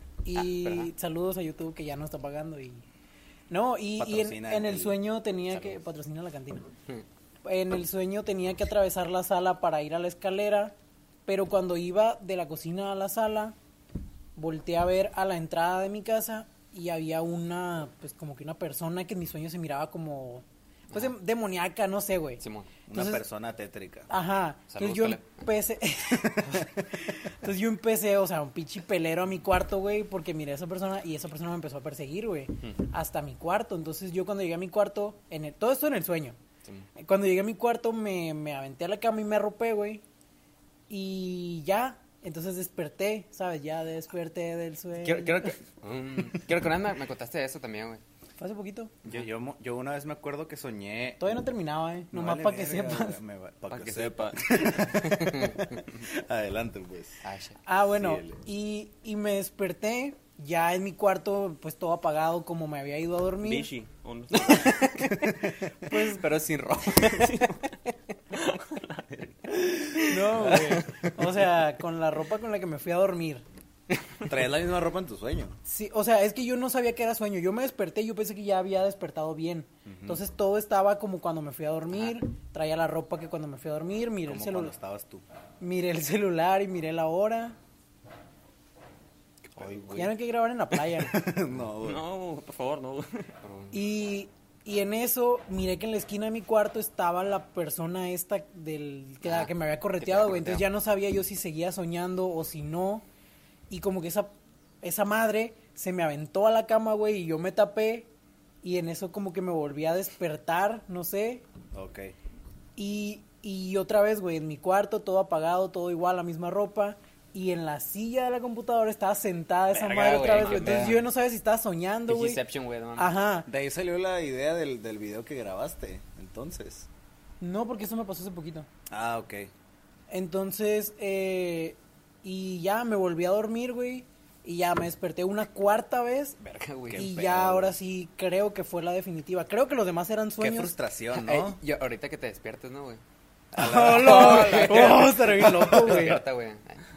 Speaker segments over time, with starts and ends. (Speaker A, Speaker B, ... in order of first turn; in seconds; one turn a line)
Speaker A: 0.2-2.8
Speaker B: 0.4-0.9
Speaker A: 3.5-6.7
Speaker C: 4.0-5.0
Speaker B: 5.5-5.8
Speaker A: 7.4-10.8
Speaker A: 11.2-13.6
Speaker A: 14.4-23.2
Speaker B: 22.4-22.7
Speaker C: 22.9-24.1
Speaker A: 24.1-36.4
Speaker B: 24.7-25.5
Speaker A: 37.0-40.0
Speaker A: 40.9-45.5
Speaker B: 45.0-48.0
Speaker A: 48.4-48.9
Speaker C: 49.0-51.4
Speaker A: 51.2-53.2
Speaker C: 52.1-57.2
Speaker D: 53.7-54.4
Speaker B: 55.1-55.8
Speaker B: 57.2-57.6
Speaker A: 57.6-63.7
Speaker C: 57.9-58.4
Speaker D: 63.4-64.8
Speaker B: 64.3-67.7
Speaker A: 65.9-66.2
Speaker D: 66.9-67.6
Speaker D: 68.3-69.6
Speaker B: 69.9-71.1
Speaker A: 70.0-73.5
Speaker C: 74.2-75.6
Speaker A: 75.7-84.7
Speaker C: 79.9-80.2
Speaker B: 81.9-82.2
Speaker C: 84.2-85.2
Speaker A: 85.6-87.6
Speaker C: 89.5-90.1
Speaker A: 89.9-91.2
Speaker C: 90.9-92.0
Speaker D: 91.8-93.3
Speaker B: 93.4-93.8
Speaker A: 93.7-103.0
Speaker B: 99.2-100.6
Speaker A: 103.7-108.1
Speaker A: 108.6-111.5
Speaker C: 111.7-112.1
Speaker A: 112.8-122.4
Speaker B: 119.7-121.0
Speaker C: 120.4-121.0
Speaker B: 122.1-123.1
Speaker A: 123.0-123.5
Speaker C: 123.5-126.9
Speaker A: 127.4-128.7
Speaker C: 128.9-129.5
Speaker A: 130.1-136.4
Speaker B: 136.4-137.1
Speaker C: 136.9-137.8
Speaker A: 136.9-140.7
Speaker C: 140.4-141.6
Speaker B: 141.1-143.0
Speaker C: 143.5-146.1
Speaker A: 143.6-146.2
Speaker B: 143.8-146.8